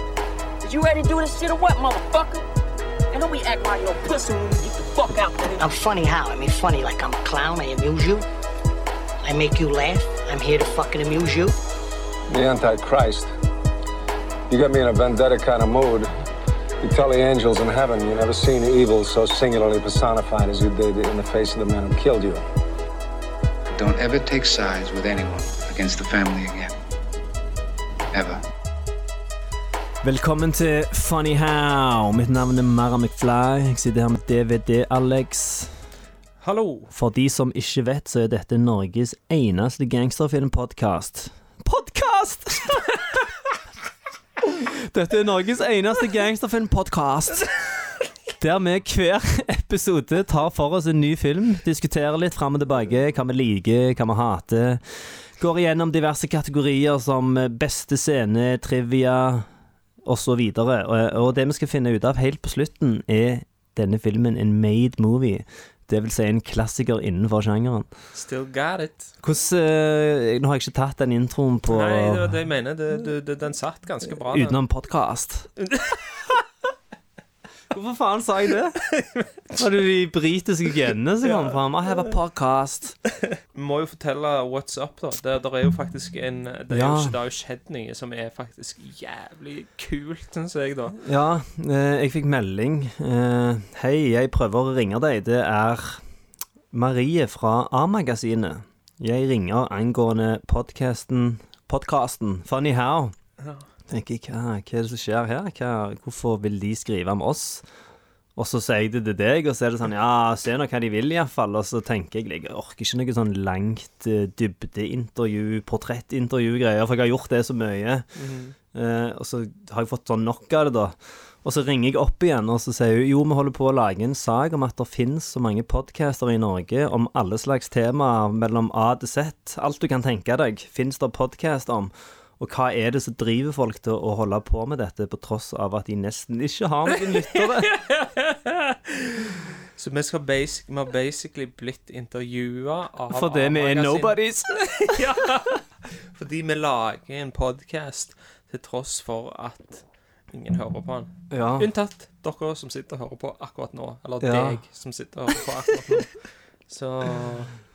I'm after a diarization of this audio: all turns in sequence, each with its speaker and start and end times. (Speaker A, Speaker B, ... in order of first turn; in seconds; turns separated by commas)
Speaker A: 0.6-2.4, Speaker A: 3.1-5.7, Speaker B: 5.6-8.2, Speaker B: 9.2-11.5, Speaker C: 12.3-13.3, Speaker C: 14.5-16.1, Speaker C: 16.8-22.4, Speaker D: 23.7-26.7, Speaker D: 28.1-28.4, Speaker E: 30.0-35.7, Speaker F: 36.4-36.9, Speaker E: 36.9-43.2, Speaker E: 44.4-47.5, Speaker E: 48.3-59.5, Speaker E: 60.0-67.9, Speaker F: 68.1-69.1, Speaker E: 69.2-72.3, Speaker F: 71.7-74.6, Speaker E: 74.3-75.5, Speaker F: 75.7-76.3, Speaker E: 77.7-78.8, Speaker F: 79.0-79.5, Speaker E: 79.5-83.0, Speaker F: 81.2-81.6, Speaker F: 83.5-91.0, Speaker E: 86.7-87.1, Speaker E: 91.0-96.0, Speaker E: 96.7-103.1, Speaker F: 103.4-103.6, Speaker E: 103.9-107.6, Speaker E: 108.3-118.1, Speaker F: 118.2-118.5, Speaker E: 118.7-137.7, Speaker F: 137.0-144.2, Speaker E: 143.1-145.0, Speaker F: 144.9-145.6, Speaker F: 146.1-157.5, Speaker E: 151.3-151.7, Speaker E: 154.2-154.6